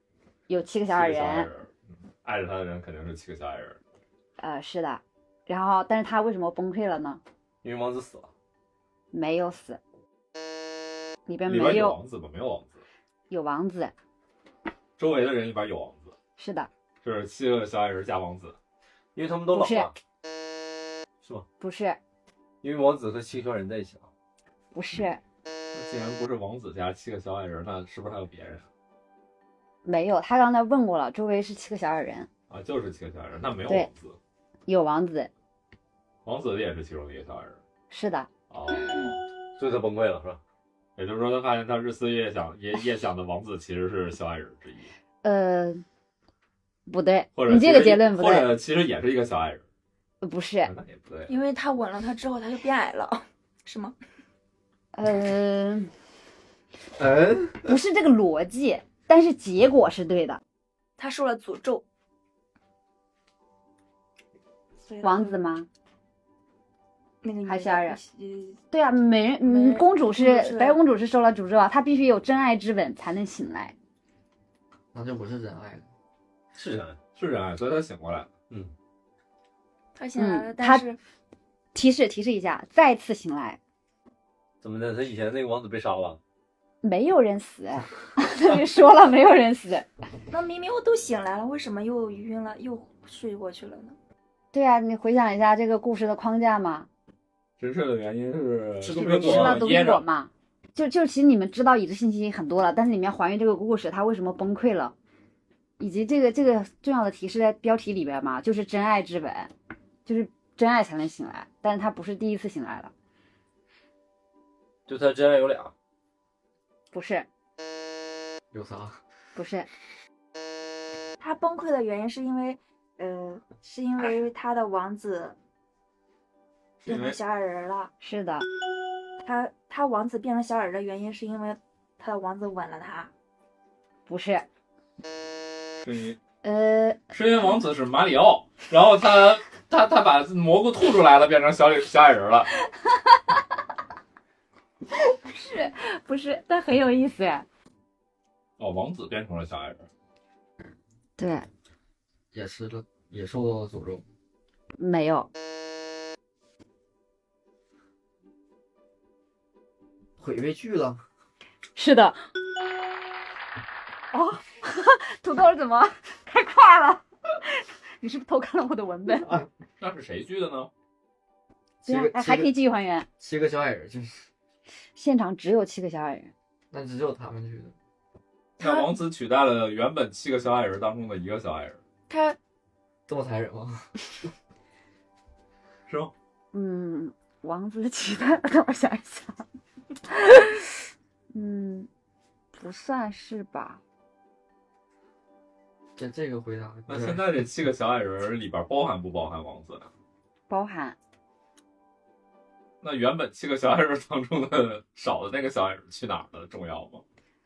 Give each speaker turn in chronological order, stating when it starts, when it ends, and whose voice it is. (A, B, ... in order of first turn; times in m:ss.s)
0:00.5-0:01.5 A
0:00.9-0:03.8 B
0:04.4-0:07.2 A
0:07.6-0:08.3 C
0:09.1-0:09.8 A
0:11.3-0:12.0 A
0:11.4-0:12.8 B
0:13.3-0:13.9 A
0:15.0-0:16.1 B
0:16.4-0:16.7 A
0:17.0-0:18.6 B
0:19.2-0:19.9 C
0:19.5-0:19.9 A
0:21.6-0:22.0 A
0:22.6-0:24.1 C
0:24.7-0:25.2 A
0:25.7-0:28.7 B
0:29.8-0:32.3 A
0:32.5-0:34.2 B
0:34.7-0:35.3 A
0:36.2-0:37.6 B
0:37.9-0:38.3 A
0:38.5-0:39.2 B
0:39.6-0:40.4 C
0:41.0-0:44.9 B
0:45.2-0:45.8 A
0:46.9-0:48.6 A
0:47.4-0:49.6 B
0:50.2-0:50.7 A
0:50.6-0:51.4 B
0:51.3-0:54.0 D
0:54.9-0:55.9 A
0:57.0-0:57.6 E
0:57.6-1:00.4 A
1:01.0-1:01.8 D
1:04.9-1:05.3 D
1:05.0-1:05.7 A
1:07.2-1:08.6 D
1:07.5-1:08.0 A
1:08.7-1:13.8 A
1:09.4-1:10.8 D
1:14.9-1:15.8 E
1:16.6-1:17.0 C
1:17.2-1:18.3 B
1:20.0-1:21.0 D
1:20.2-1:20.8 A
1:21.7-1:23.6 A
1:24.6-1:26.2 C
1:26.8-1:29.9 A
1:30.3-1:34.0 D
1:34.5-1:36.9 A
1:37.6-1:40.0 B
1:38.8-1:39.7 C
1:38.9-1:45.0 A
1:45.8-1:49.5 A
1:50.1-1:52.9 A
1:54.9-1:55.7 C
1:56.9-1:57.3 A
1:59.4-1:59.7 A
2:01.2-2:05.4 D
2:06.9-2:07.2 B
2:06.9-2:07.9 D
2:08.0-2:08.5 A
2:09.2-2:13.1 D
2:14.1-2:14.5 A
2:15.8-2:16.2 B
2:16.4-2:17.2 A
2:17.1-2:22.5 B
2:25.1-2:27.5 A
2:28.6-2:29.9 B
2:31.2-2:31.5 A
2:32.3-2:34.0 E
2:34.8-2:35.3 A
2:40.2-2:41.0 E
2:41.8-2:42.2 A
2:44.1-2:49.4 A
2:49.8-2:50.7 B
2:51.8-2:53.1 A
2:51.9-2:52.5 E
2:53.2-2:54.2 E
2:55.0-2:56.3 A
2:56.7-2:57.7 E
2:58.6-3:01.8 B
2:58.6-2:58.9 D
3:02.1-3:02.4 D
3:03.1-3:03.8 E
3:05.9-3:06.1 B
3:06.5-3:09.4 A
3:11.3-3:11.9 A
3:12.6-3:13.8 A
3:16.0-3:17.2 E
3:16.9-3:19.9 B
3:20.5-3:21.0 A
3:22.8-3:27.0 B